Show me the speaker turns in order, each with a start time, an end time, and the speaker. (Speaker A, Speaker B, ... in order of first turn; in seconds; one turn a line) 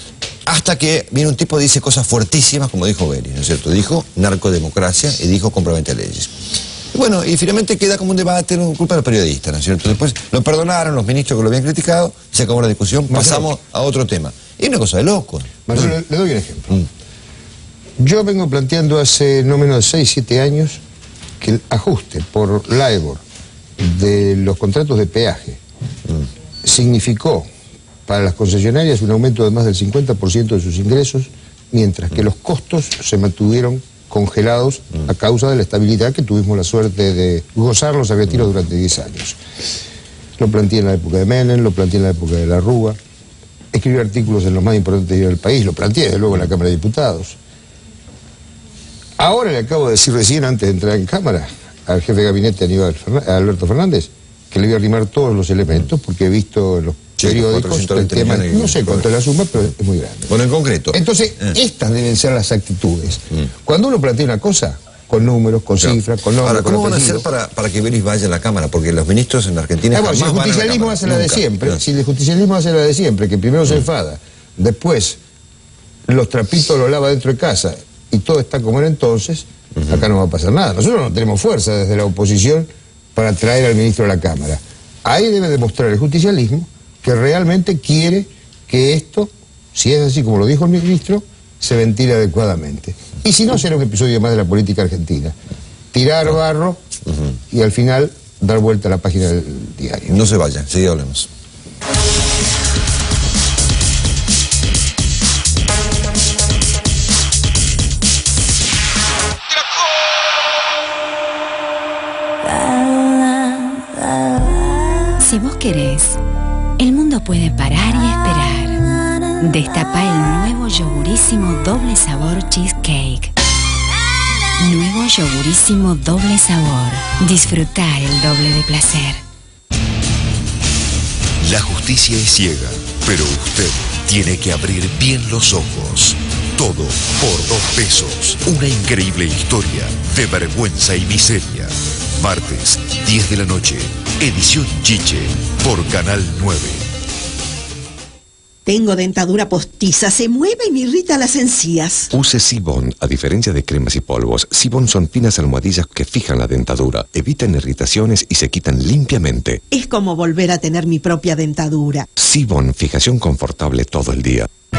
Speaker A: 0.5-6.3
Speaker A: 6.9-15.9
Speaker B: 13.1-13.5
Speaker B: 15.7-16.7
Speaker B: 18.0-20.8
Speaker B: 21.4-23.2
Speaker B: 23.8-25.6
Speaker B: 26.6-27.5
Speaker B: 28.1-39.4
Speaker B: 40.4-43.0
Speaker B: 43.7-47.4
Speaker B: 49.2-60.2
Speaker A: 57.2-59.1
Speaker A: 60.3-61.5
Speaker B: 60.9-67.2
Speaker A: 65.7-71.8
Speaker B: 69.9-75.2
Speaker B: 76.1-95.3
Speaker A: 79.8-80.1
Speaker B: 95.9-96.8
Speaker B: 97.5-100.2
Speaker A: 100.0-101.3
Speaker C: 115.2-116.2
Speaker C: 116.8-118.8
Speaker C: 119.4-123.3
Speaker C: 124.6-129.2
Speaker D: 131.4-146.8
Speaker E: 148.7-152.1
Speaker F: 152.1-159.6
Speaker E: 159.7-162.0
Speaker F: 162.2-164.5